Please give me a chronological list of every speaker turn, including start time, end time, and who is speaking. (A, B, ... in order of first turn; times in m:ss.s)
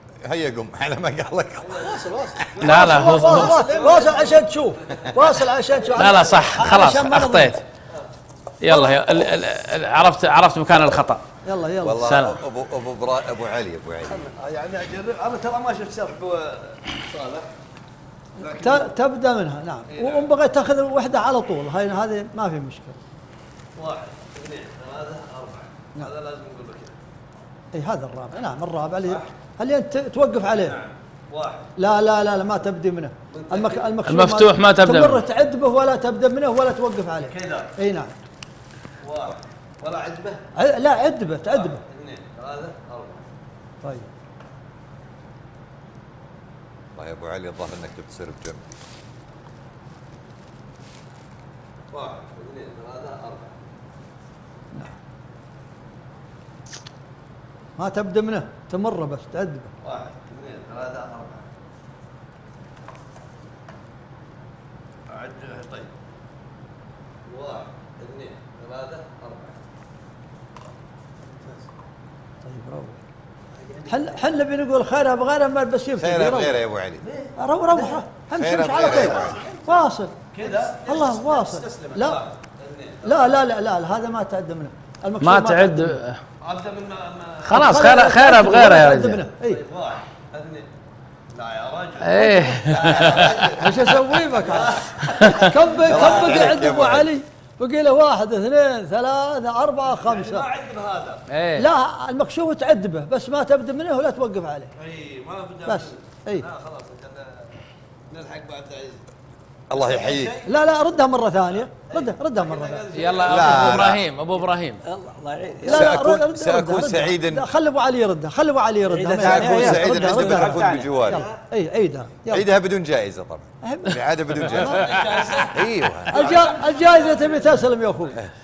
0:00.2-0:02.6 A
0:01.6-0:05.2 B
0:01.8-0:02.5 C
0:02.6-0:03.5 D
0:02.6-0:07.5 E
0:05.8-0:06.2 B
0:05.9-0:07.6 D
0:08.6-0:11.2 D
0:08.7-0:09.0 E
0:11.4-0:12.0 E
0:11.8-0:14.2 A
0:12.0-0:12.4 D
0:14.1-0:17.5 B
0:18.4-0:18.9 B
0:18.4-0:23.0 E
0:19.9-0:20.3 B
0:23.8-0:27.0 B
0:27.7-0:30.8 E
0:30.6-0:31.7 B
0:31.8-0:38.1 E
0:33.3-0:33.9 B
0:34.0-0:35.2 D
0:37.3-0:37.7 B
0:39.0-0:40.4 B
0:40.6-0:41.8 E
0:41.5-0:43.2 B
0:43.8-0:44.1 E
0:47.0-0:48.6 A
0:51.9-0:53.6 B
0:57.8-0:59.7 E
0:59.8-1:01.5 B
1:05.1-1:05.9 B
1:07.2-1:09.6 B
1:12.4-1:13.0 E
1:13.6-1:14.2 B
1:13.9-1:16.6 E
1:16.0-1:17.0 A
1:17.0-1:18.0 B
1:17.4-1:20.1 E
1:18.3-1:19.4 A
1:18.8-1:19.6 B
1:20.3-1:23.4 B
1:20.8-1:22.2 E
1:23.0-1:26.0 E
1:25.2-1:26.2 D
1:26.4-1:28.0 B
1:27.4-1:29.2 D
1:27.5-1:29.6 E
1:29.4-1:30.7 B
1:31.3-1:36.8 B
1:32.0-1:33.5 D
1:33.6-1:40.4 E
1:35.0-1:35.4 D
1:35.8-1:37.1 A
1:39.8-1:41.2 B
1:41.3-1:41.7 D
1:41.6-1:44.7 E
1:44.8-1:49.1 B
1:45.6-1:46.4 E
1:49.7-1:50.4 A
1:49.7-1:50.6 B
1:50.4-1:52.9 E
1:51.9-1:53.8 B
1:52.9-1:54.8 D
1:53.2-1:54.0 A
1:54.8-1:55.9 C
1:55.6-2:02.4 E
1:55.6-1:57.4 A
1:58.8-2:01.1 C
1:59.1-2:01.2 A
2:01.0-2:01.4 B
2:02.3-2:06.4 A
2:03.6-2:04.8 E
2:04.4-2:08.1 B
2:06.1-2:08.2 E